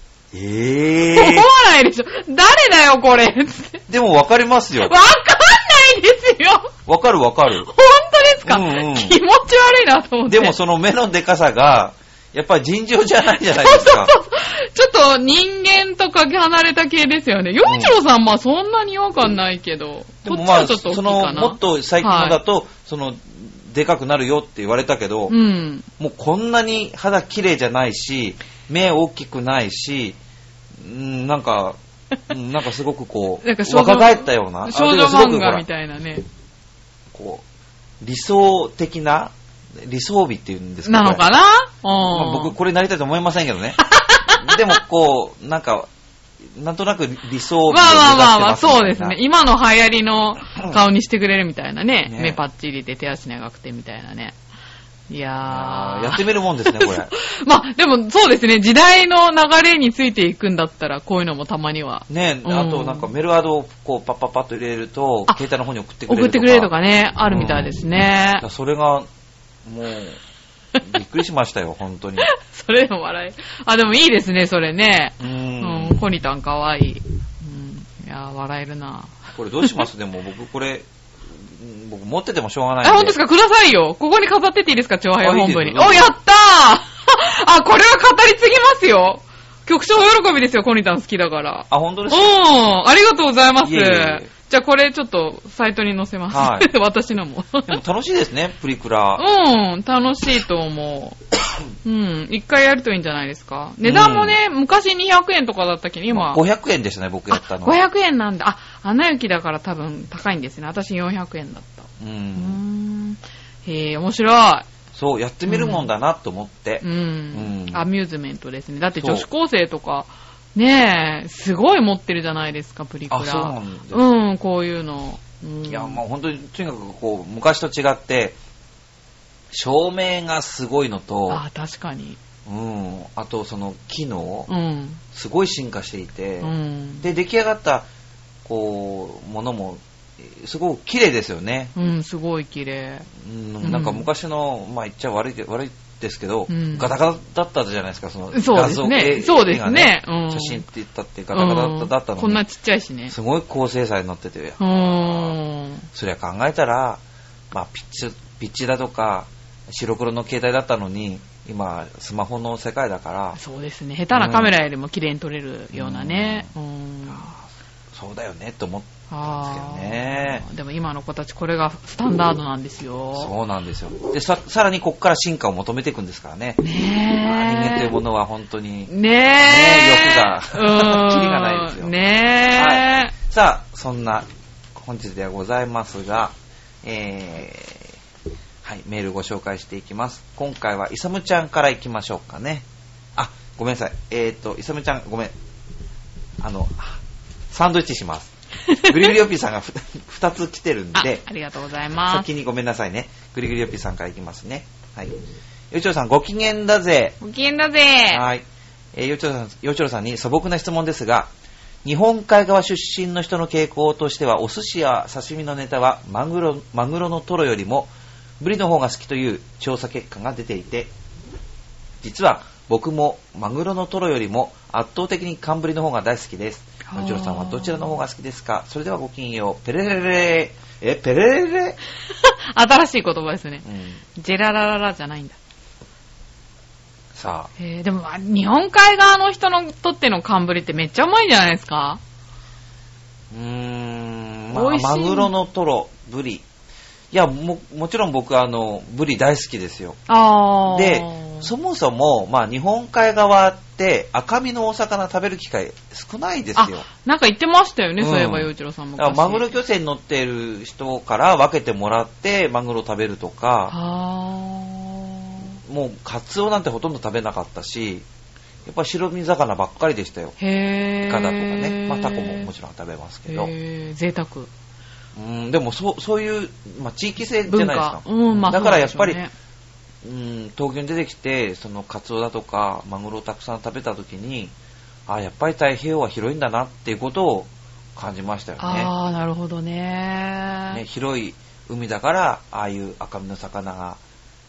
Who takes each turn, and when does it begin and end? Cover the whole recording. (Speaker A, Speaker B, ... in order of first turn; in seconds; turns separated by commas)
Speaker A: 0.3-1.5, Speaker B: 1.1-3.9, Speaker A: 3.9-4.9, Speaker B: 4.8-6.7, Speaker A: 6.9-7.7, Speaker B: 7.6-10.6, Speaker A: 8.4-9.2, Speaker A: 10.3-14.1, Speaker B: 13.5-22.4, Speaker A: 17.6-17.9, Speaker A: 20.2-25.4, Speaker B: 25.3-25.9, Speaker A: 26.0-30.2, Speaker A: 30.8-35.6, Speaker B: 33.4-36.2, Speaker A: 37.1-37.4, Speaker A: 38.0-41.3, Speaker B: 40.8-42.5, Speaker A: 42.0-45.9, Speaker B: 43.8-44.6, Speaker A: 46.5-49.2, Speaker B: 47.7-54.4, Speaker A: 52.1-52.4, Speaker B: 55.1-63.1, Speaker A: 55.5-57.1, Speaker A: 62.1-66.7, Speaker B: 66.1-68.5, Speaker A: 67.3-67.8, Speaker A: 68.4-69.1, Speaker A: 69.7-70.2, Speaker A: 70.8-72.3, Speaker B: 72.2-79.9, Speaker A: 75.2-76.0, Speaker A: 79.3-83.2, Speaker B: 82.8-97.8, Speaker A: 85.2-86.1, Speaker A: 91.7-92.4, Speaker A: 93.6-94.3, Speaker A: 96.3-96.7, Speaker A: 97.7-99.2, Speaker B: 99.2-101.2, Speaker B: 101.8-106.4, Speaker A: 103.8-104.4, Speaker A: 106.1-107.8, Speaker B: 107.3-114.7, Speaker A: 112.0-112.6, Speaker A: 114.9-117.9, Speaker B: 115.5-115.9, Speaker B: 116.8-126.0, Speaker A: 119.0-119.3, Speaker A: 123.1-124.0, Speaker A: 125.7-128.4, Speaker A: 129.5-131.4, Speaker B: 131.3-132.2, Speaker A: 132.5-134.5, Speaker B: 134.5-135.0, Speaker A: 135.1-137.9, Speaker B: 136.4-137.1, Speaker A: 138.4-141.7, Speaker B: 141.8-143.1, Speaker A: 143.2-152.4, Speaker B: 143.6-144.1, Speaker B: 146.5-146.9, Speaker B: 148.3-150.7, Speaker B: 151.3-153.2, Speaker A: 153.1-155.4, Speaker B: 154.6-155.9, Speaker A: 155.9-163.4, Speaker B: 163.4-167.3, Speaker A: 164.1-164.6, Speaker A: 165.7-166.5, Speaker A: 167.1-170.5, Speaker B: 169.1-173.3, Speaker A: 173.2-176.6, Speaker B: 176.6-178.0, Speaker A: 177.2-181.9, Speaker B: 178.9-183.1, Speaker A: 182.5-187.9, Speaker A: 188.6-192.7, Speaker A: 193.2-195.3, Speaker A: 196.4-197.0, Speaker A: 197.5-201.2, Speaker B: 200.9-202.3, Speaker A: 202.1-205.1, Speaker A: 205.7-207.2, Speaker B: 207.2-208.2, Speaker A: 208.1-208.4, Speaker A: 208.9-211.3, Speaker A: 211.8-220.9, Speaker A: 222.0-231.8, Speaker B: 226.9-228.0, Speaker B: 232.1-235.4, Speaker A: 233.7-234.0, Speaker A: 237.2-237.5, Speaker B: 237.6-242.0, Speaker A: 243.3-246.4, Speaker B: 244.5-245.3, Speaker A: 247.1-250.0, Speaker B: 250.1-251.5, Speaker A: 250.7-256.9, Speaker B: 256.6-259.5, Speaker A: 258.0-263.7, Speaker B: 263.7-265.6, Speaker A: 265.6-268.1, Speaker A: 268.7-270.4, Speaker B: 270.4-272.5, Speaker A: 271.1-273.5, Speaker B: 273.3-274.5, Speaker A: 275.2-279.2, Speaker B: 277.5-279.3, Speaker A: 280.0-284.5, Speaker A: 285.1-288.9, Speaker B: 288.6-290.8, Speaker A: 290.7-294.0